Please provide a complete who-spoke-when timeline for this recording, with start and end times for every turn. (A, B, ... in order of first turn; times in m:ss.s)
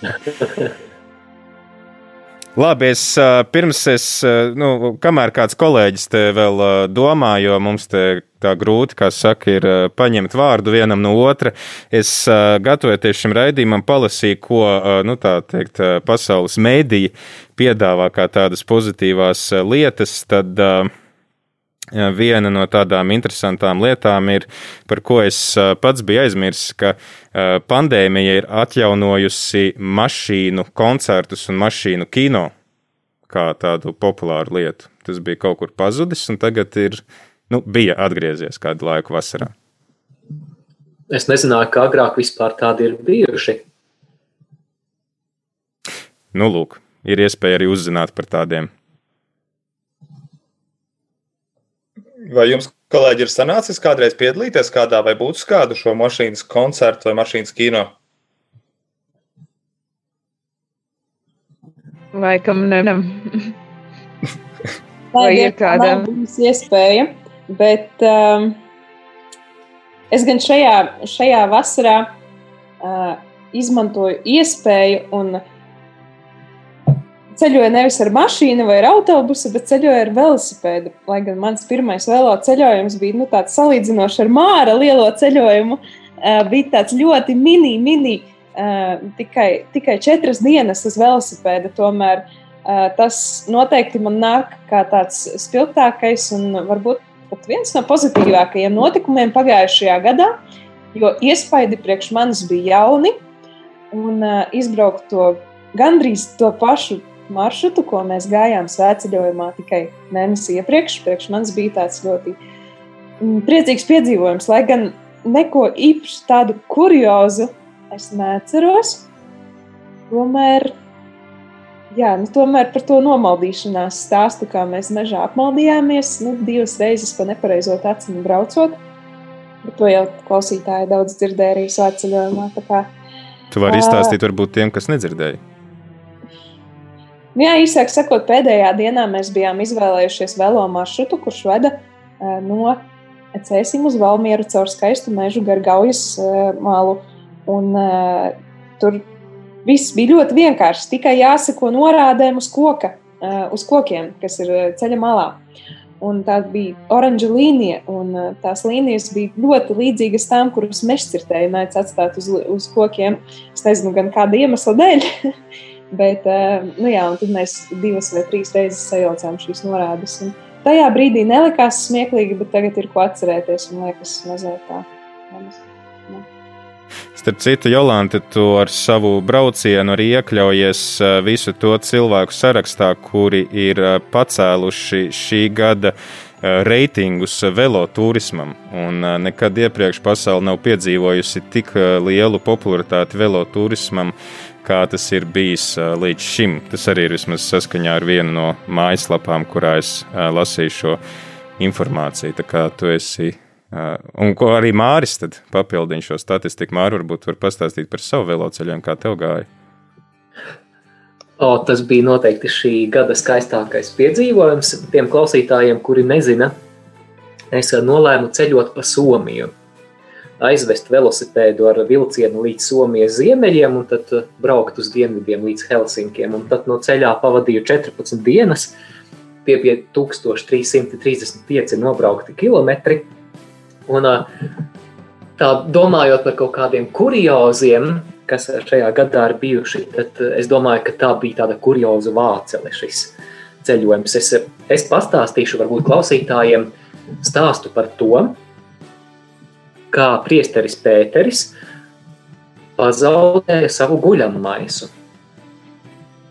0:02.6-0:20.9 A
0:21.9-0:32.5 A
0:33.3-0:39.5 A
0:41.1-0:43.6 B
0:46.3-0:48.7 A
0:52.2-0:57.9 C
1:02.1-1:03.5 D
1:05.1-1:08.6 E
1:05.2-1:06.1 D
1:10.1-1:12.1 E
1:12.8-1:15.4 E
1:17.3-1:40.4 E
1:40.9-1:43.2 E
1:43.9-1:52.4 E
1:53.2-1:59.0 E
2:00.1-2:00.7 E
2:01.9-2:08.8 E
2:09.6-2:12.9 E
2:13.5-2:15.4 A
2:13.7-2:14.2 E
2:17.3-2:22.8 E
2:23.3-2:29.0 E
2:29.6-2:35.4 E
2:36.0-2:45.1 E
2:45.9-2:56.2 E
2:57.1-3:21.0 A
3:21.6-3:29.5 A
3:31.4-3:36.6 B
3:37.5-3:39.5 B
3:40.4-3:48.7 B
3:49.4-3:53.1 B
3:53.9-3:54.3 B
3:55.4-4:08.4 B
4:09.9-4:11.5 B
4:12.8-4:14.9 B